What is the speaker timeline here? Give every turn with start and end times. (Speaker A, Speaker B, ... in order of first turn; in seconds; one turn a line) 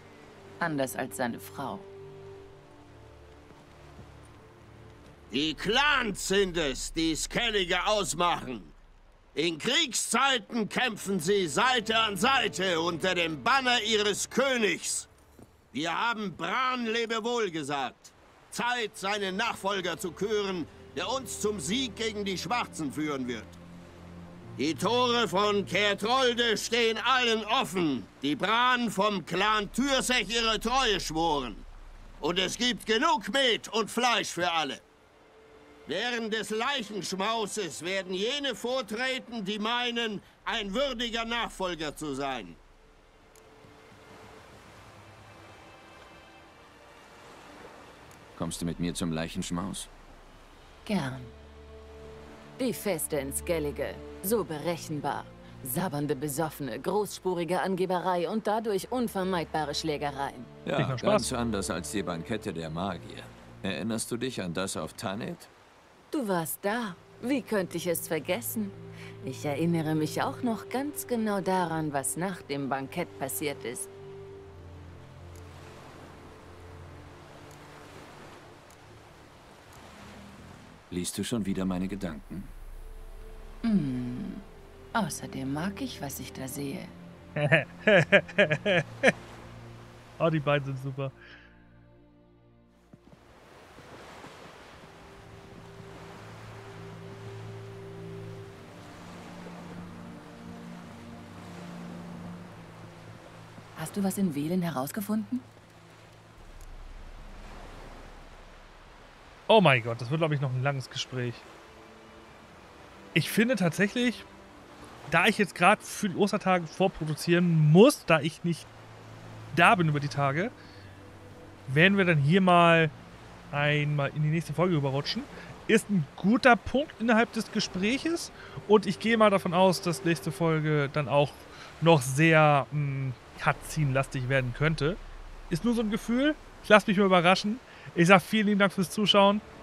Speaker A: 0.6-1.9
Speaker B: 5.3-8.8
Speaker B: 9.3-15.1
Speaker B: 15.7-23.6
Speaker B: 24.6-31.7
Speaker B: 32.2-34.8
Speaker B: 35.9-42.6
Speaker C: 48.4-49.9
Speaker A: 50.9-51.3
Speaker A: 52.6-60.5
Speaker C: 60.6-65.5
Speaker D: 60.8-61.3
Speaker A: 66.1-73.9
Speaker C: 80.9-82.5
Speaker A: 83.6-87.0
Speaker D: 87.4-89.1
Speaker D: 90.2-91.2
Speaker A: 103.8-105.5
Speaker D: 109.5-111.4
Speaker D: 113.2-114.3
Speaker D: 115.1-118.7
Speaker D: 119.5-120.5
Speaker D: 121.7-122.9
Speaker D: 123.5-135.0
Speaker D: 135.5-139.4